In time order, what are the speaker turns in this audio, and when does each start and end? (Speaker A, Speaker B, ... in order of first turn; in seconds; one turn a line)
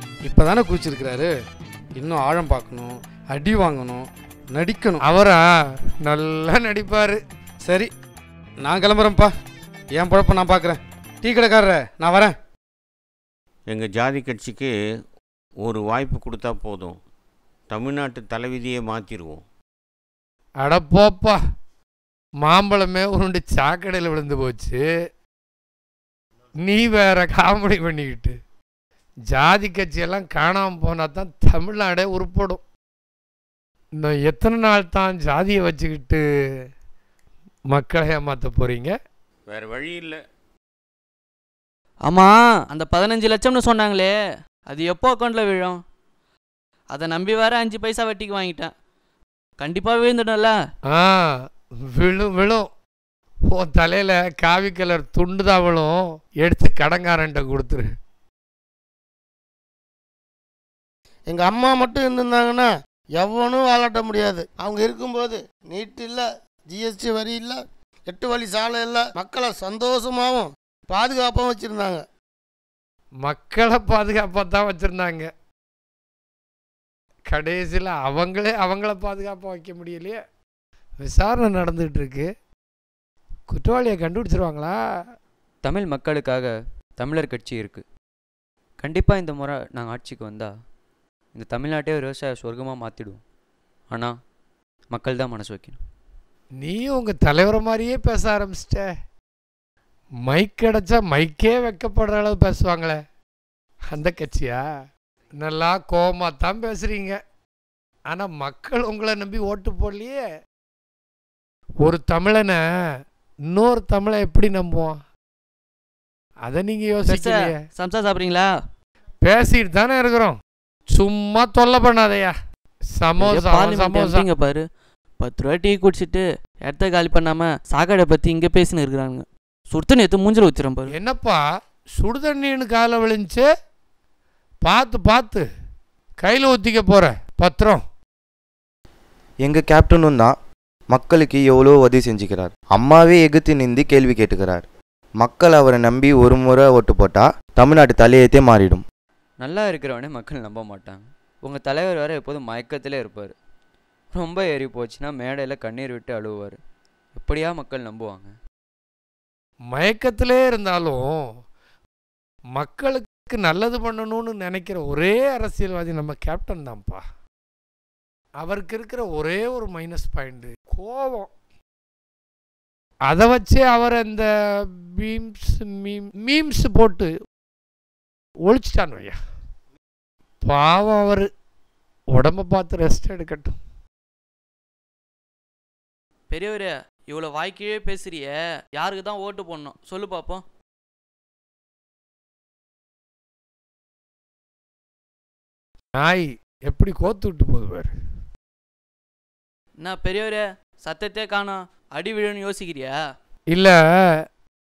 Speaker A: 0.2-1.3
Speaker A: 2.0-5.0
Speaker B: 5.0-5.4
Speaker B: 6.0-7.2
Speaker A: 7.6-7.9
Speaker A: 8.6-9.3
Speaker A: 9.9-12.3
Speaker C: 13.7-14.7
Speaker C: 15.6-17.0
Speaker C: 17.7-19.4
Speaker B: 20.6-21.4
Speaker B: 22.4-24.8
Speaker B: 26.6-28.3
Speaker B: 29.3-32.6
Speaker B: 34.0-36.2
Speaker B: 37.7-38.9
Speaker C: 39.5-40.2
Speaker D: 42.0-44.1
Speaker D: 44.7-45.8
Speaker D: 46.9-48.7
Speaker D: 49.6-50.5
Speaker B: 50.9-51.3
Speaker B: 52.0-52.7
Speaker B: 53.5-57.9
Speaker E: 61.3-72.0
Speaker B: 73.2-75.3
Speaker B: 77.3-80.2
Speaker B: 81.0-82.3
Speaker B: 83.5-84.8
Speaker F: 85.6-87.8
Speaker F: 88.8-90.5
Speaker F: 91.3-93.2
Speaker F: 93.9-94.1
Speaker F: 94.9-95.8
Speaker B: 96.6-98.9
Speaker B: 100.2-103.0
Speaker B: 103.9-104.6
Speaker B: 105.4-107.2
Speaker B: 108.1-110.2
Speaker B: 111.8-112.6
Speaker B: 113.5-115.0
Speaker B: 116.4-117.6
Speaker D: 117.1-118.5
Speaker B: 119.2-120.4
Speaker B: 120.9-122.3
Speaker B: 123.0-124.3
Speaker D: 123.2-124.6
Speaker D: 125.2-130.9
Speaker B: 130.9-131.4
Speaker B: 132.0-133.5
Speaker B: 134.6-135.4
Speaker B: 136.2-137.8
Speaker G: 139.4-140.3
Speaker G: 140.9-144.7
Speaker G: 145.2-148.8
Speaker F: 149.4-153.3
Speaker F: 154.1-156.6
Speaker F: 157.1-158.3
Speaker B: 159.7-161.2
Speaker B: 162.5-167.0
Speaker B: 168.4-171.3
Speaker B: 173.1-174.3
Speaker B: 175.0-177.1
Speaker B: 178.4-179.2
Speaker B: 180.4-181.3
Speaker B: 182.1-183.6
Speaker D: 186.3-190.4
Speaker B: 195.9-197.9
Speaker D: 199.8-202.9